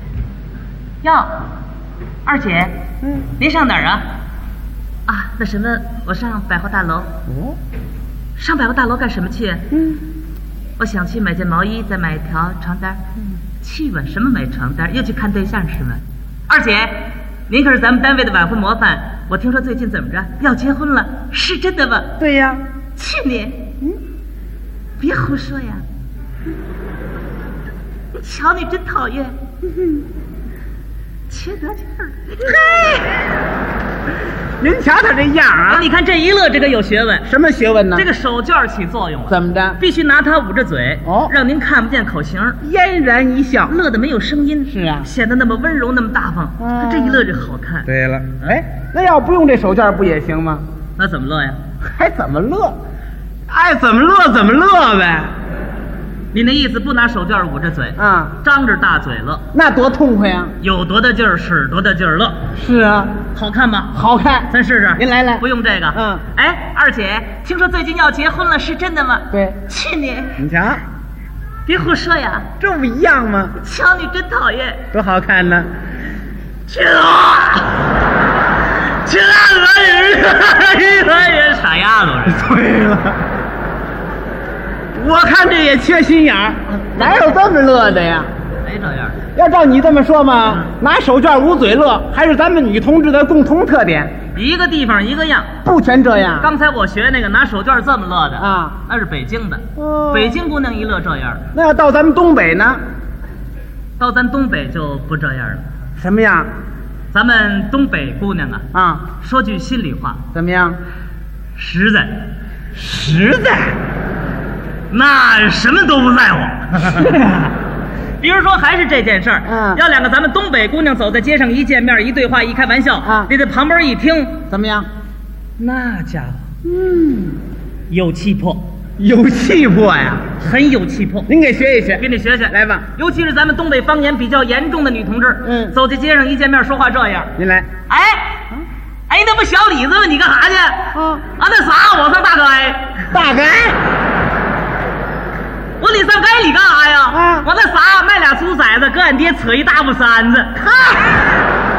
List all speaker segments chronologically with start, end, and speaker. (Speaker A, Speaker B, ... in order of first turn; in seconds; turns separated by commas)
Speaker A: 1.0-1.4, Speaker A: 2.2-2.8, Speaker B: 3.0-3.3, Speaker A: 3.3-4.0, Speaker A: 5.1-7.1, Speaker B: 7.3-7.6, Speaker A: 8.3-9.7, Speaker B: 9.7-10.0, Speaker A: 10.8-22.1, Speaker B: 22.2-22.6, Speaker A: 22.9-23.7, Speaker A: 25.0-25.8, Speaker A: 28.1-29.3, Speaker A: 31.3-32.8, Speaker B: 32.4-33.1, Speaker B: 34.6-35.9, Speaker A: 35.7-37.2, Speaker B: 37.2-38.1, Speaker A: 37.9-42.6, Speaker B: 39.3-39.8, Speaker B: 41.0-41.3, Speaker B: 42.6-43.7, Speaker A: 43.7-47.9, Speaker B: 44.7-45.1, Speaker B: 46.6-47.3, Speaker B: 47.9-50.6, Speaker A: 51.0-51.6, Speaker B: 51.8-52.8, Speaker B: 53.5-55.3, Speaker A: 56.3-59.4, Speaker B: 58.0-58.4, Speaker B: 59.5-60.5, Speaker A: 60.6-62.5, Speaker B: 62.5-63.2, Speaker A: 63.3-70.4, Speaker B: 63.9-66.2, Speaker B: 69.3-69.6, Speaker B: 70.4-70.8, Speaker A: 71.7-72.5, Speaker B: 72.6-73.5, Speaker A: 73.6-74.8, Speaker B: 74.9-75.7, Speaker A: 76.7-77.9, Speaker A: 78.7-82.5, Speaker B: 82.3-83.2, Speaker B: 84.9-88.3, Speaker A: 88.6-89.2, Speaker B: 89.3-94.1, Speaker A: 94.3-95.5, Speaker B: 95.6-96.5, Speaker A: 96.4-101.5, Speaker B: 98.4-98.8, Speaker B: 99.8-100.3, Speaker B: 101.5-102.8, Speaker A: 104.0-105.6, Speaker B: 106.0-106.5, Speaker A: 107.1-110.2, Speaker B: 108.7-109.0, Speaker B: 110.3-110.8, Speaker A: 111.5-112.2, Speaker B: 112.8-113.8, Speaker A: 114.9-117.4, Speaker B: 117.0-117.5, Speaker A: 118.2-124.4, Speaker B: 119.5-119.8, Speaker B: 123.0-123.3, Speaker B: 124.5-124.9, Speaker A: 125.6-126.4, Speaker B: 126.6-127.4, Speaker A: 127.9-128.6, Speaker B: 129.0-130.3, Speaker A: 130.4-131.3, Speaker B: 131.3-132.8, Speaker A: 132.0-137.3, Speaker B: 135.4-135.7, Speaker B: 137.4-137.7, Speaker A: 137.9-138.5, Speaker A: 139.1-143.1, Speaker B: 140.9-141.2, Speaker B: 143.1-143.8, Speaker A: 145.8-150.6, Speaker B: 147.1-147.5, Speaker B: 150.6-151.1